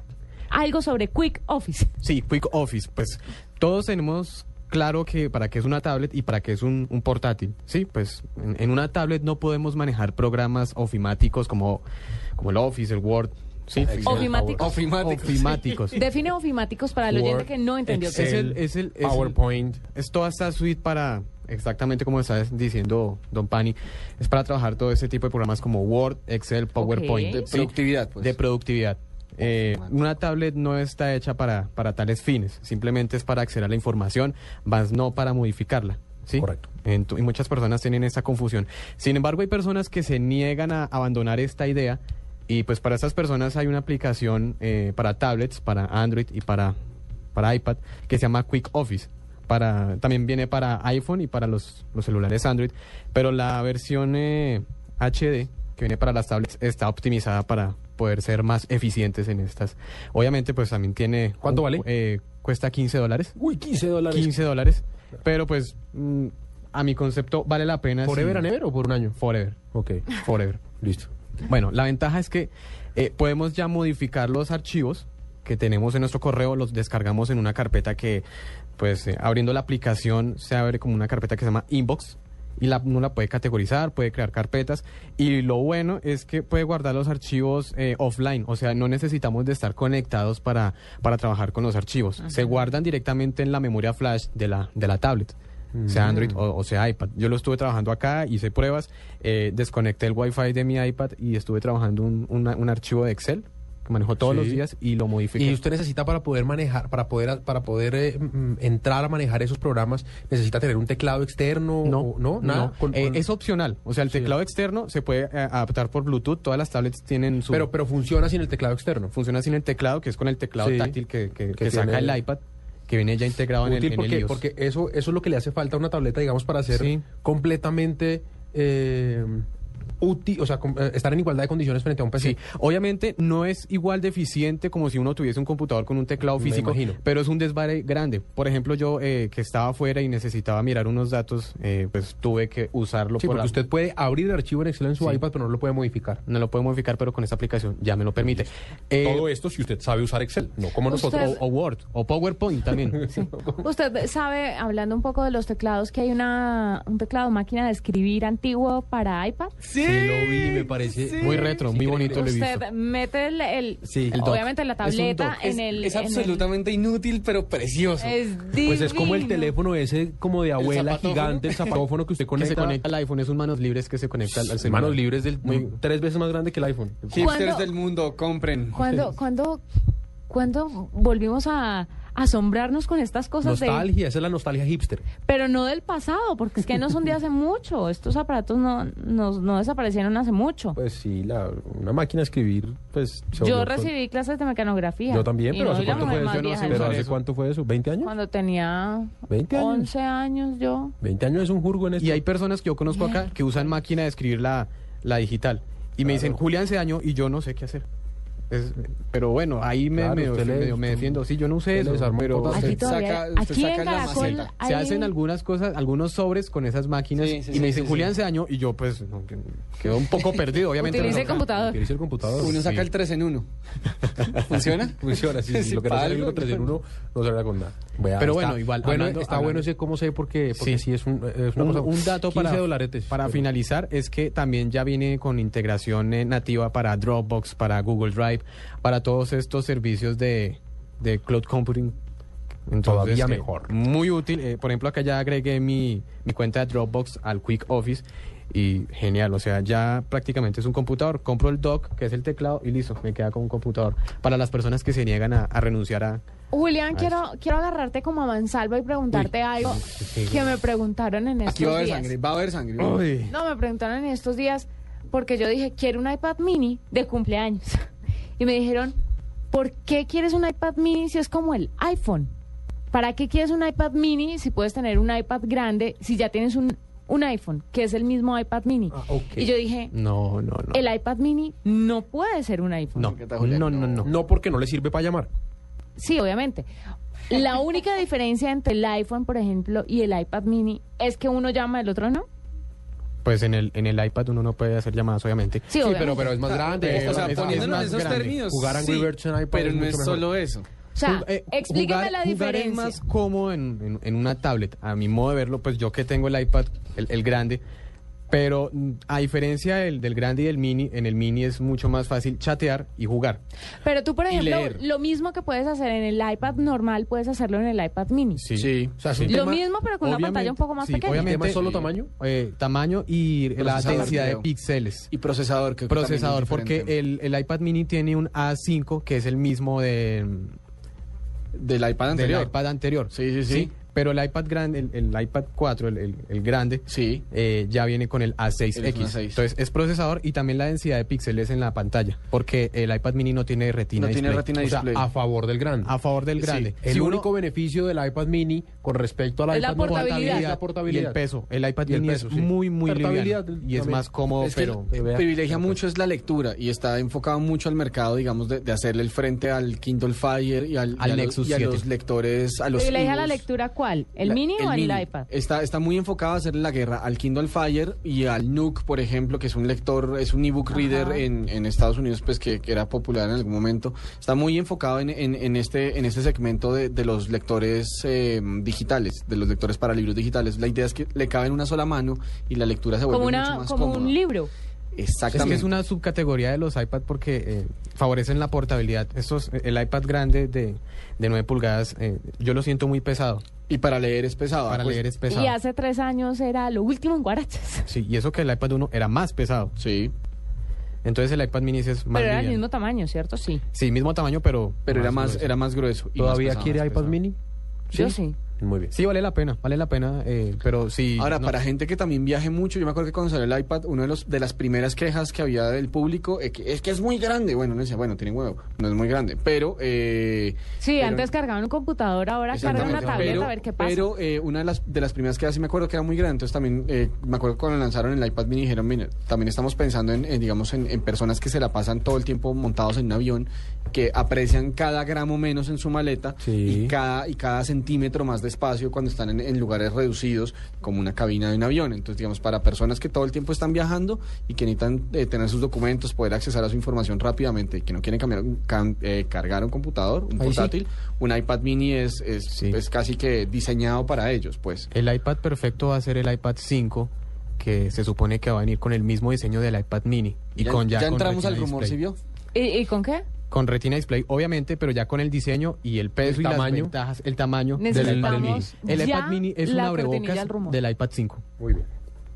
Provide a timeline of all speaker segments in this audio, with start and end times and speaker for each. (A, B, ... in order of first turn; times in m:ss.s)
0:00.5-0:01.9 A
0:02.0-0:11.8 B
0:12.4-0:16.0 B
0:13.8-0:14.4 C
0:14.0-0:16.0 D
0:14.0-0:14.8 A
0:15.9-0:18.5 A
0:17.1-0:17.5 C
0:18.1-0:19.8 C
0:18.1-0:19.4 B
0:19.9-0:46.8 B
0:26.8-0:27.4 A
0:27.3-0:28.4 D
0:29.4-0:30.0 D
0:47.3-1:03.4 B
1:01.4-1:01.8 C
1:03.4-1:04.4 C
1:04.1-1:08.5 B
1:08.0-1:09.2 C
1:09.2-1:09.6 B
1:09.7-1:10.1 C
1:10.2-1:10.6 B
1:10.8-1:11.1 C
1:11.4-1:18.2 B
1:18.8-1:35.4 B
1:35.8-1:36.4 C
1:35.9-1:45.6 B
1:44.2-1:44.6 C
1:45.4-1:53.2 C
1:51.8-1:57.7 B
1:57.5-1:59.1 C
1:59.1-2:04.4 B
2:00.6-2:01.0 C
2:01.6-2:02.2 C
2:03.6-2:09.5 C
2:06.7-2:07.1 B
2:10.0-2:12.4 C
2:12.2-2:23.5 B
2:16.4-2:17.0 C
2:23.2-2:26.2 C
2:26.3-2:29.3 B
2:29.0-2:31.4 C
2:30.9-2:31.4 A
2:30.9-2:33.1 B
2:33.1-2:33.6 C
2:33.6-2:39.6 A
2:39.6-2:41.4 D
2:39.8-2:42.2 C
2:41.2-2:42.6 B
2:42.1-2:46.5 A
2:43.8-2:44.2 C
2:44.1-2:45.4 B
2:45.4-2:48.2 D
2:48.0-2:49.5 A
2:48.6-2:52.8 C
2:50.6-2:51.8 D
2:52.4-2:55.7 B
2:54.6-2:57.3 C
2:57.1-2:59.1 D
2:57.2-2:57.7 A
2:58.7-2:59.6 A
3:00.3-3:03.9 A
3:03.4-3:05.1 C
3:05.2-3:10.8 A
3:10.8-3:13.9 C
3:13.4-3:17.0 A
3:15.1-3:18.1 C
3:15.8-3:17.2 B
3:18.0-3:21.0 A
3:19.3-3:19.9 C
3:21.0-3:22.2 C
3:22.0-3:27.8 B
3:22.9-3:23.3 A
3:26.0-3:26.4 C
3:28.5-3:32.7 B
3:30.0-3:31.2 C
3:31.7-3:32.8 C
3:32.5-3:35.1 A
3:32.7-3:34.5 D
3:34.0-3:41.4 B
3:37.2-3:38.1 D
3:40.8-3:41.8 A
3:40.9-3:42.7 C
3:42.4-3:43.5 D
3:42.5-3:42.9 B
3:44.1-3:46.8 D
3:44.8-3:53.4 C
3:48.2-3:49.7 B
3:50.6-3:50.8 B
3:51.6-4:02.0 B
4:02.7-4:16.2 B
4:02.8-4:03.7 C
4:16.5-4:22.1 A
4:19.1-4:19.8 B
4:20.0-4:20.5 C
4:21.5-4:23.0 D
4:22.8-4:23.3 B
4:23.3-4:27.9 A
4:28.4-4:29.0 A
4:29.5-4:32.3 A
4:32.9-4:39.9 A
4:38.9-4:39.5 C
4:39.9-4:40.8 B
4:40.7-4:43.2 A
4:43.0-4:44.1 B
4:43.0-4:44.1 D
4:44.0-4:45.3 C
4:46.0-4:46.7 A
4:47.3-4:52.3 A
4:53.2-4:55.7 B
4:55.7-4:56.4 A
4:55.8-5:00.3 C
4:56.4-5:00.7 D
4:56.7-4:58.4 B
5:01.0-5:03.0 A
5:01.0-5:07.6 B
5:08.3-5:13.4 B
5:13.8-5:18.4 A
5:14.3-5:14.8 D
5:18.4-5:19.4 B
5:18.6-5:19.0 D
5:19.0-5:19.6 C
5:19.3-5:21.4 A
5:20.0-5:25.1 B
5:21.1-5:22.1 C
5:23.6-5:24.5 D
5:23.7-5:24.3 C
5:25.1-5:27.0 D
5:25.9-5:30.6 B
5:31.5-5:32.5 D
5:32.1-5:44.9 B
5:33.1-5:33.7 D
5:36.9-5:37.2 D
5:38.8-5:39.4 D
5:44.0-5:45.0 D
5:44.8-5:46.0 C
5:45.8-5:47.3 B
5:46.4-5:46.7 D
5:46.8-5:51.2 C
5:49.5-5:50.5 A
5:49.8-5:54.9 B
5:51.8-5:54.1 C
5:54.4-6:03.4 D
5:54.7-5:55.8 C
6:01.0-6:01.8 B
6:02.8-6:05.3 A
6:04.2-6:24.2 D
6:10.7-6:11.2 A
6:23.1-6:24.5 A
6:25.0-6:25.7 D
6:25.3-6:33.4 B
6:33.7-6:35.0 D
6:34.7-6:35.6 B
6:35.3-6:37.9 A
6:37.9-6:39.8 B
6:39.8-6:40.1 D
6:41.0-6:42.6 B
6:42.1-6:43.6 A
6:43.7-6:45.4 B
6:44.9-6:47.2 D
6:45.0-6:45.5 C
6:46.2-6:47.4 C
6:47.9-6:48.4 A
6:48.0-6:48.9 C
6:48.9-6:51.5 B
6:51.2-7:01.3 D
7:00.8-7:04.1 A
7:02.5-7:34.9 D
7:02.6-7:03.5 C
7:16.4-7:17.0 C
7:30.4-7:30.8 C
7:32.5-7:32.8 B
7:34.9-7:42.0 B
7:40.6-7:42.2 D
7:42.5-7:43.2 A
7:43.5-7:51.4 B
7:46.2-7:46.9 C
7:47.8-7:50.8 A
7:47.9-7:48.7 C
7:51.6-7:51.9 C